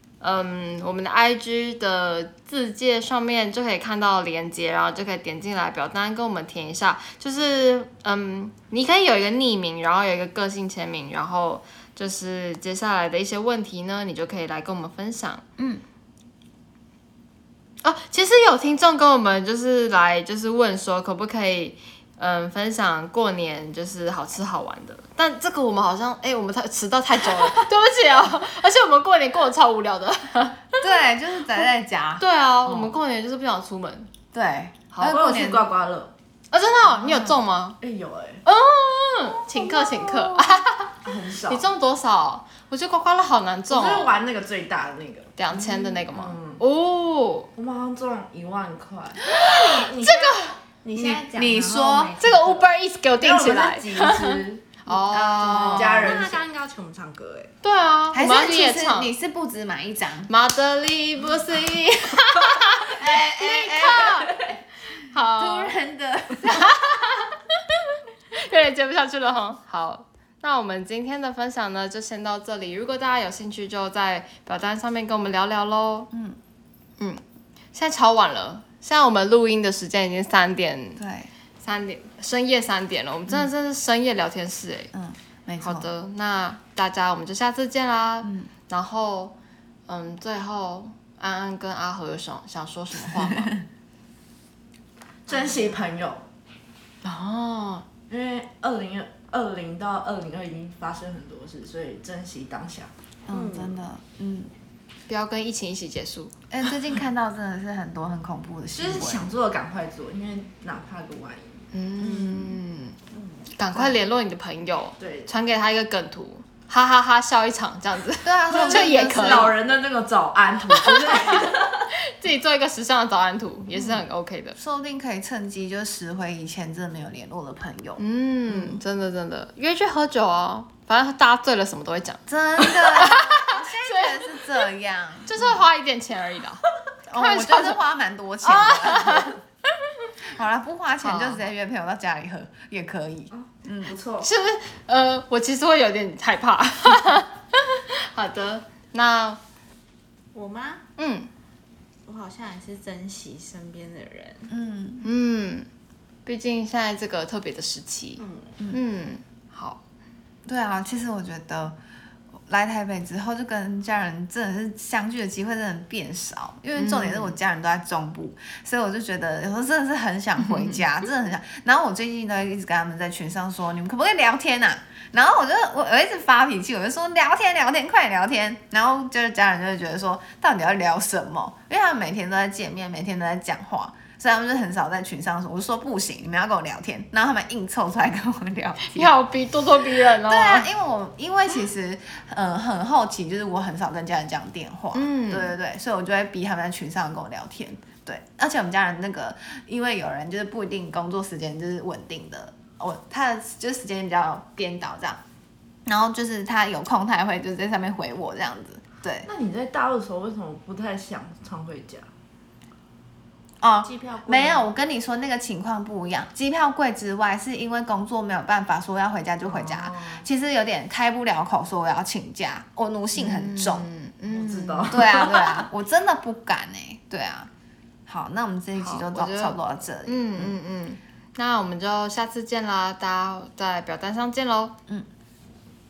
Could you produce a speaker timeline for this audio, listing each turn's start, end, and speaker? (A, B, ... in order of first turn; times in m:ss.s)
0:00.2-0:15.4 A
0:15.6-0:15.8 B
0:17.8-0:30.9 A
0:30.8-0:32.2 B
0:32.2-0:34.1 A
0:32.6-0:33.0 C
0:34.3-0:35.7 B
0:34.9-0:35.2 A
0:35.0-0:36.1 C
0:36.5-0:37.8 A
0:37.0-0:37.3 B
0:37.8-0:38.4 C
0:38.4-0:40.9 A
0:39.6-0:40.6 B
0:41.0-0:41.7 C
0:41.5-0:44.1 A
0:43.7-0:46.6 C
0:45.4-0:47.5 A
0:47.5-0:50.4 C
0:49.8-0:50.6 A
0:50.8-0:52.6 D
0:50.9-0:52.1 B
0:52.2-0:56.1 A
0:53.2-0:54.8 C
0:55.1-0:56.2 B
0:55.7-0:56.4 C
0:55.9-0:57.5 D
0:57.6-0:59.1 A
0:58.1-1:00.3 B
1:00.3-1:04.3 A
1:02.9-1:04.4 B
1:03.0-1:04.6 C
1:05.1-1:05.7 A
1:05.1-1:07.0 B
1:06.4-1:07.4 A
1:08.3-1:16.1 A
1:16.1-1:16.4 B
1:17.7-1:21.0 A
1:21.0-1:21.3 B
1:21.6-1:24.9 A
1:24.9-1:25.9 B
1:25.6-1:29.3 A
1:28.2-1:28.5 B
1:29.9-1:33.5 A
1:33.1-1:33.6 B
1:35.3-1:36.2 C
1:37.0-1:37.8 A
1:38.1-1:42.9 C
1:43.3-1:44.5 B
1:43.3-1:43.8 D
1:45.1-1:46.3 A
1:46.5-1:49.3 B
1:48.7-1:51.6 C
1:51.7-1:53.0 A
1:52.0-1:52.6 B
1:53.1-1:54.0 B
1:53.5-1:59.5 A
1:55.0-1:55.3 C
1:58.2-1:59.5 B
1:58.5-2:01.9 C
2:00.7-2:04.6 A
2:03.7-2:04.0 B
2:04.6-2:08.8 B
2:08.0-2:14.4 A
2:12.3-2:15.6 B
2:15.2-2:17.8 A
2:17.1-2:19.4 B
2:18.4-2:19.4 A
2:20.2-2:24.0 B
2:21.0-2:21.4 A
2:23.3-2:24.3 C
2:24.2-2:29.4 A
2:30.3-2:30.8 D
2:31.0-2:31.3 A
2:32.0-2:34.5 D
2:34.5-2:35.0 B
2:35.0-2:35.7 A
2:36.2-2:39.8 A
2:38.2-2:38.6 D
2:40.4-2:41.8 B
2:42.5-3:09.1 B
2:46.7-2:47.3 A
2:50.4-2:50.8 A
3:08.8-3:10.7 A
3:10.2-3:25.2 B
3:14.9-3:15.5 A
3:25.8-3:29.3 B
3:29.2-3:32.1 C
3:33.6-3:43.8 B
3:33.8-3:34.6 D
3:39.4-3:40.2 C
3:43.1-3:45.6 A
3:44.3-3:45.1 C
3:44.9-3:47.5 B
3:48.1-3:50.6 B
3:48.8-3:54.8 A